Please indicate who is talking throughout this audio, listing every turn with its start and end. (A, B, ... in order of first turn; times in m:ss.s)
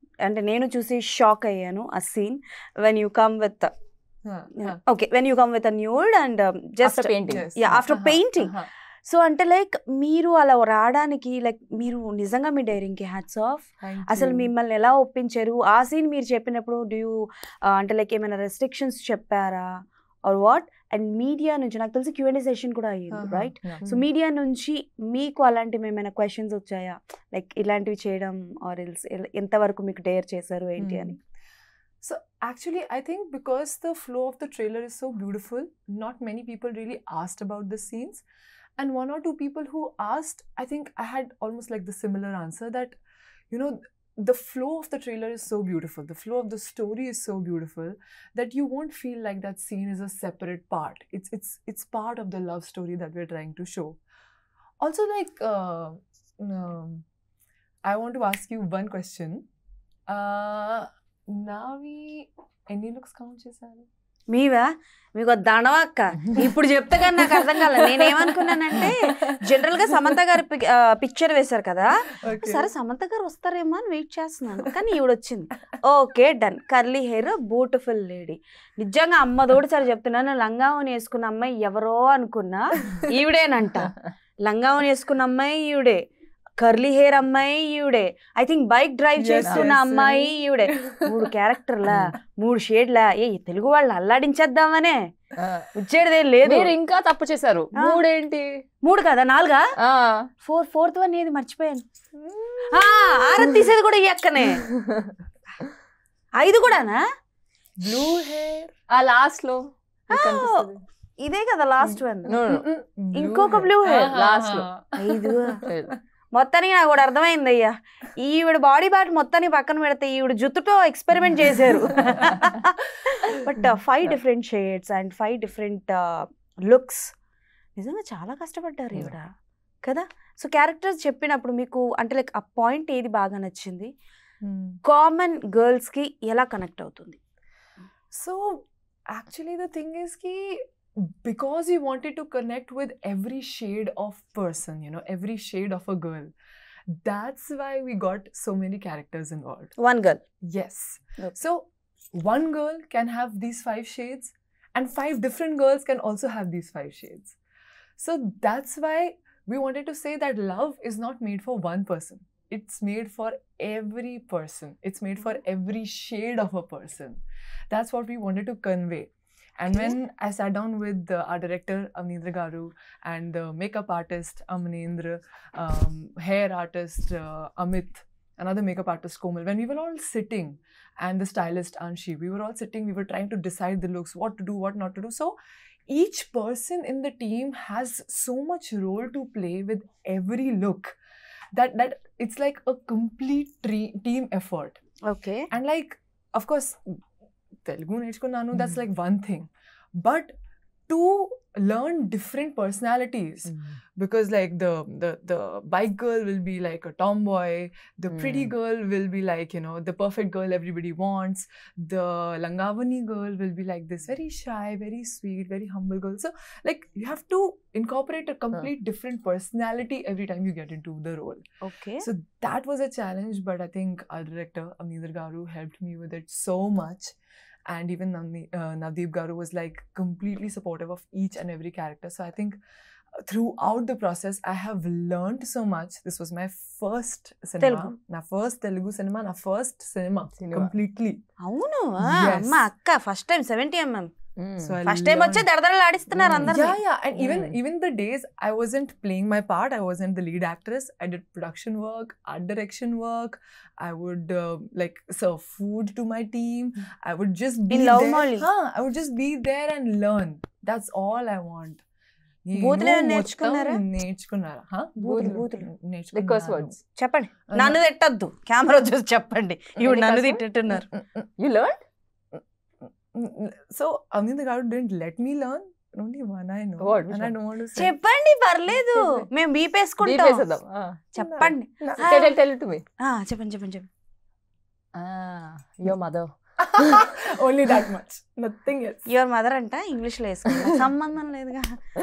0:00.2-0:03.7 A
0:04.2-0:04.8 B
0:04.6-0:31.2 A
0:06.8-0:07.5 C
0:07.3-0:08.7 B
0:13.8-0:14.5 B
0:23.1-0:24.1 B
0:30.8-0:31.2 B
0:32.0-0:38.2 B
0:38.8-0:43.0 B
0:43.5-0:54.0 B
0:54.8-0:57.0 B
0:57.8-0:59.4 B
1:00.1-1:03.9 B
1:04.3-1:26.0 A
1:07.2-1:09.7 B
1:12.2-1:12.7 B
1:26.6-1:35.1 A
1:29.2-1:31.2 B
1:29.4-1:29.7 C
1:35.4-1:35.7 C
1:35.7-1:36.7 A
1:36.4-1:38.6 C
1:37.8-1:38.0 A
1:38.8-1:39.7 A
1:39.8-1:40.3 C
1:40.4-1:41.8 A
1:42.2-1:43.5 B
1:42.7-1:44.7 A
1:44.6-1:45.2 C
1:46.4-1:47.0 A
1:47.8-1:48.8 B
1:48.9-1:50.8 C
1:50.1-1:50.7 A
1:51.2-1:52.4 A
1:51.8-1:52.7 C
1:52.4-1:55.8 B
1:53.1-1:54.2 A
1:53.5-1:54.7 C
1:55.0-1:55.7 A
1:55.6-1:55.9 C
1:56.3-2:07.1 A
2:02.0-2:02.4 B
2:07.8-2:09.3 A
2:09.8-2:13.9 A
2:14.4-2:14.8 B
2:14.8-2:17.2 A
2:18.1-2:26.3 B
2:26.9-2:29.7 B
2:29.8-2:30.2 A
2:30.4-2:37.4 B
2:38.0-3:05.4 B
3:05.9-3:11.0 B
3:11.5-3:14.8 B
3:15.0-3:15.5 A
3:15.5-3:17.0 B
3:17.6-3:20.3 B
3:20.9-3:41.4 B
3:23.5-3:23.8 C
3:28.1-3:28.5 C
3:41.6-3:42.1 A
3:42.0-3:47.1 B
3:47.7-3:52.6 B
3:53.2-4:01.2 B
3:57.6-3:57.9 A
4:00.4-4:00.7 C
4:01.4-4:04.1 A
4:02.0-4:02.7 B
4:04.4-4:04.8 C
4:04.6-4:05.5 B
4:04.8-4:06.8 A
4:06.1-4:06.6 C
4:06.4-4:21.8 B
4:07.2-4:07.6 C
4:17.7-4:18.5 A
4:22.4-4:26.8 B
4:22.5-4:23.8 A
4:25.0-4:25.4 C
4:25.0-4:25.7 A
4:26.1-4:26.8 C
4:27.0-4:30.9 A
4:27.5-4:27.8 B
4:29.8-4:31.3 B
4:31.4-4:31.8 C
4:32.4-4:37.9 B
4:36.8-4:37.4 C
4:37.8-4:40.5 A
4:38.7-4:39.3 B
4:40.0-4:41.1 C
4:41.2-4:42.4 A
4:41.2-4:42.1 B
4:41.9-4:42.8 C
4:43.0-4:43.9 A
4:45.0-4:47.0 C
4:46.6-4:49.0 B
4:49.1-4:51.7 A